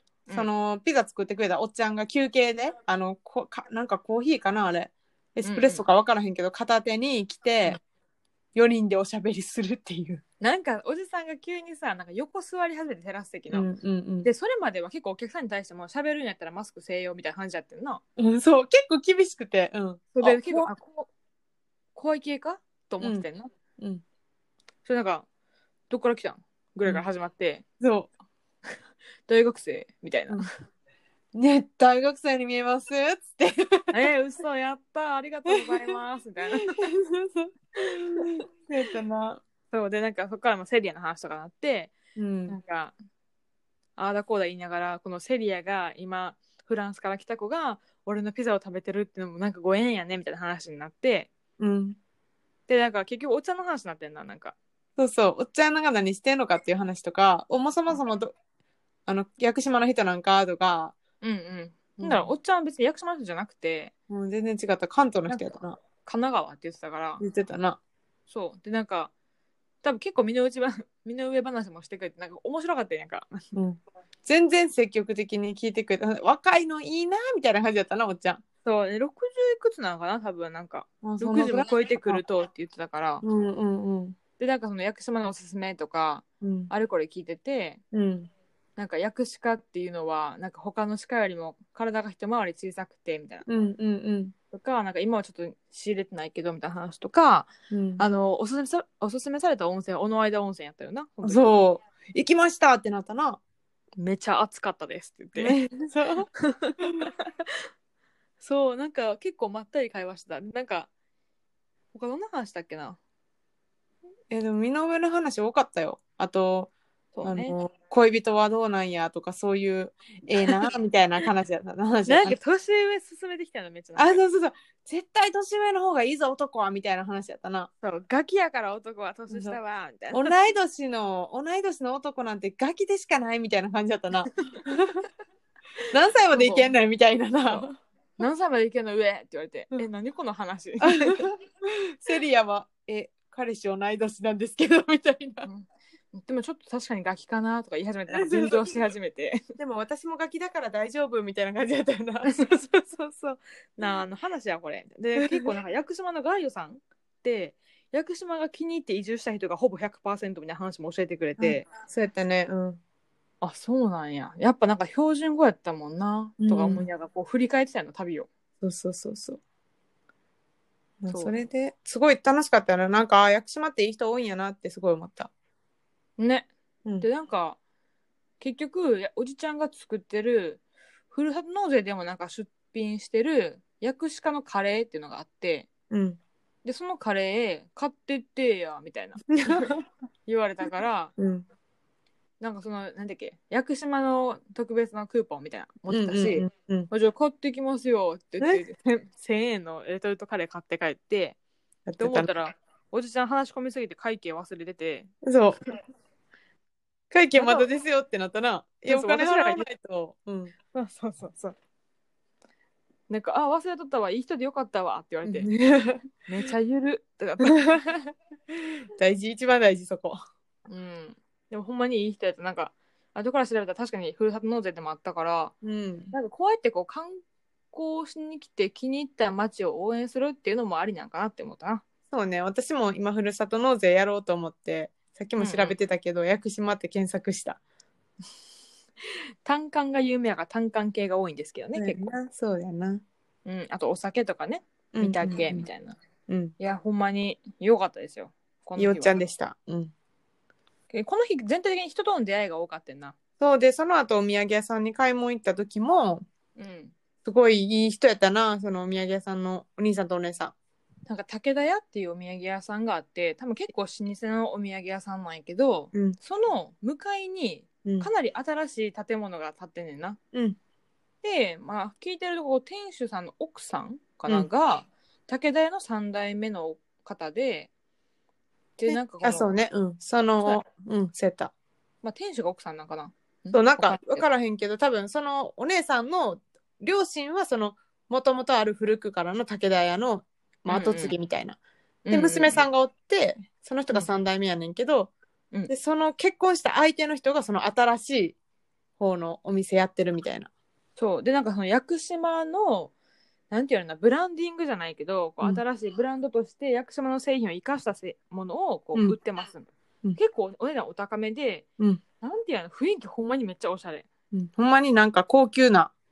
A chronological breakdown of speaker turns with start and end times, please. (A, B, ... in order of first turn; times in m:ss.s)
0:00.3-0:07.8 A
0:05.4-0:05.8 B
0:08.5-0:10.2 A
0:10.4-0:13.6 B
0:13.5-0:14.3 A
0:14.2-0:18.0 B
0:18.2-0:20.7 A
0:20.1-0:21.1 B
0:21.9-0:23.5 B
0:24.8-0:25.2 B
0:25.9-0:27.6 B
0:27.8-0:28.1 A
0:29.3-0:30.4 B
0:31.3-0:33.9 A
0:33.9-0:36.8 B
0:35.5-0:35.9 A
0:36.6-0:39.4 A
0:37.8-0:38.4 B
0:39.7-0:41.9 B
0:42.2-0:42.6 A
0:42.5-0:42.9 B
0:44.0-0:51.3 B
0:51.6-0:52.0 A
0:52.7-0:54.5 B
0:55.0-0:58.3 A
0:59.1-1:00.9 A
1:01.2-1:03.9 B
1:02.0-1:02.3 A
1:04.1-1:05.8 A
1:06.0-1:07.2 B
1:07.2-1:07.8 A
1:08.3-1:09.1 B
1:09.8-1:13.4 B
1:13.5-1:18.4 A
1:18.6-1:23.2 B
1:21.0-1:22.2 A
1:23.2-1:24.2 A
1:24.4-1:27.8 B
1:26.4-1:26.7 A
1:27.9-1:28.3 A
1:28.8-1:33.4 B
1:33.4-1:34.3 A
1:34.5-1:41.6 B
1:37.7-1:38.0 A
1:41.2-1:43.4 A
1:44.0-1:45.6 B
1:45.4-1:46.3 A
1:46.4-1:47.5 B
1:48.4-1:50.9 B
1:51.9-1:53.0 B
1:54.3-1:56.7 A
1:57.1-1:57.6 B
1:57.2-2:02.4 A
2:02.0-2:04.2 B
2:04.0-2:07.7 A
2:07.8-2:10.3 B
2:09.3-2:09.6 A
2:10.1-2:15.0 A
2:15.9-2:17.7 A
2:16.3-2:16.7 B
2:17.5-2:21.3 B
2:20.8-2:25.5 A
2:25.4-2:29.4 B
2:28.1-2:28.7 A
2:29.6-2:32.4 A
2:32.2-2:41.6 B
2:35.2-2:35.5 A
2:41.4-2:42.8 A
2:43.4-2:48.3 B
2:46.4-2:46.8 A
2:48.6-2:49.4 A
2:51.0-2:55.3 A
2:56.2-2:56.5 B
2:57.0-2:57.6 B
2:58.4-3:00.6 B
3:01.1-3:05.7 B
3:05.9-3:06.2 A
3:06.6-3:09.7 B
3:09.3-3:09.8 A
3:10.2-3:11.1 B
3:11.2-3:11.4 A
3:12.4-3:21.4 B
3:15.9-3:16.9 A
3:21.9-3:22.3 A
3:22.0-3:25.1 B
3:25.2-3:25.6 A
3:27.1-3:30.5 A
3:27.3-3:27.7 B
3:28.8-3:29.7 B
3:30.7-3:31.6 B
3:33.1-3:35.5 B
3:35.2-3:36.0 A
3:36.3-3:37.8 B
3:37.5-3:37.9 A
3:38.5-3:40.2 A
3:40.7-3:45.5 B
3:45.6-3:46.1 A
3:46.1-3:51.8 B
3:52.1-3:57.6 A
3:55.4-3:55.8 B
3:59.4-4:02.1 B
4:01.8-4:03.0 A
4:03.4-4:06.0 B
4:04.9-4:05.6 A
4:06.3-4:06.5 A
4:06.6-4:09.2 B
4:08.8-4:09.9 A
4:10.9-4:13.2 B
4:13.4-4:16.2 A
4:16.6-4:16.9 B
4:17.2-4:20.5 A
4:21.1-4:30.2 B
4:27.8-4:28.1 A
4:30.3-4:30.6 A
4:31.2-4:37.7 B
4:38.8-4:39.5 B
4:38.9-4:41.5 A
4:42.0-4:44.2 B
4:43.5-4:51.6 A
4:50.7-4:51.2 B
4:52.0-4:52.6 B
4:52.1-4:55.1 A
4:55.7-4:58.4 A
4:59.0-5:00.5 A
5:01.0-5:02.9 B
5:03.5-5:11.6 B
5:12.2-5:14.0 B
5:14.3-5:15.9 A